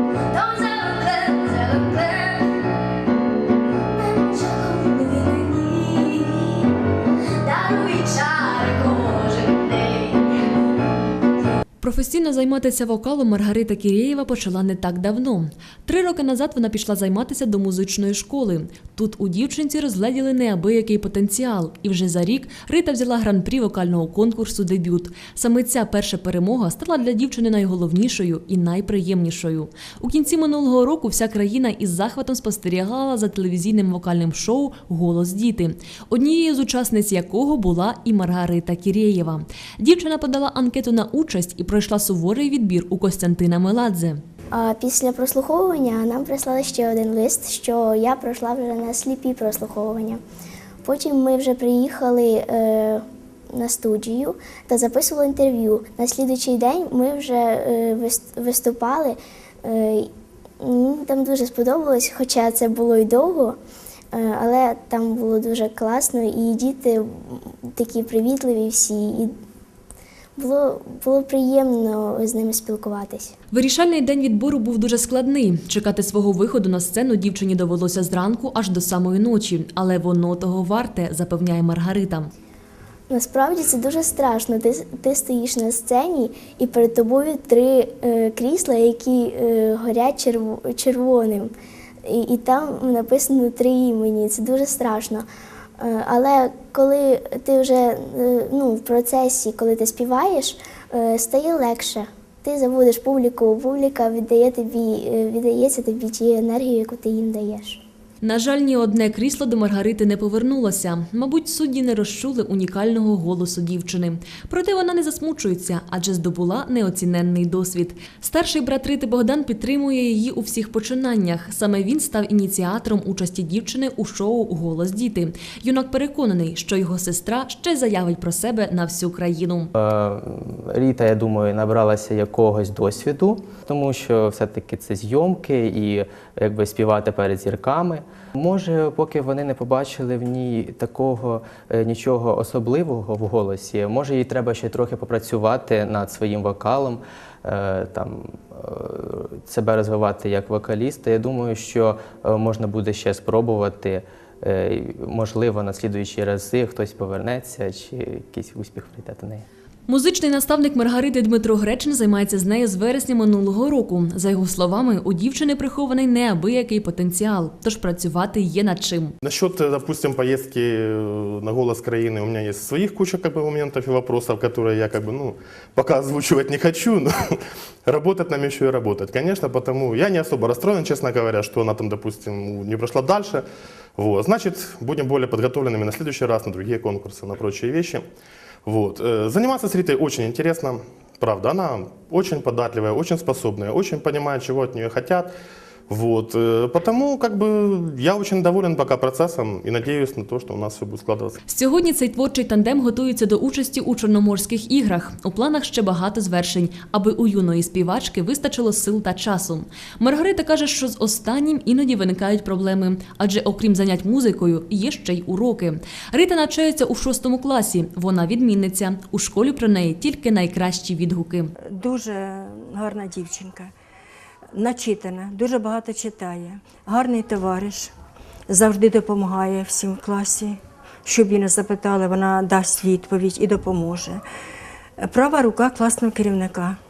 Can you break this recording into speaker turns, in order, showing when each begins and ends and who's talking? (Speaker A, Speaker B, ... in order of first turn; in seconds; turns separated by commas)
Speaker A: 11.8-44.2, Speaker B: 44.5-50.2, Speaker B: 50.8-60.1, Speaker B: 60.6-63.6, Speaker B: 64.1-69.3, Speaker B: 70.4-73.3, Speaker A: 73.5-82.3, Speaker B: 83.1-91.5, Speaker B: 92.0-95.3, Speaker B: 95.8-107.8, Speaker A: 108.2-129.7, Speaker C: 129.8-159.5, Speaker A: 159.9-169.1, Speaker D: 169.2-183.4, Speaker D: 184.0-188.0, Speaker D: 188.7-195.3, Speaker D: 195.9-201.4, Speaker A: 201.5-221.5, Speaker E: 221.8-223.7, Speaker E: 224.5-227.9, Speaker E: 228.5-234.2, Speaker E: 235.0-236.8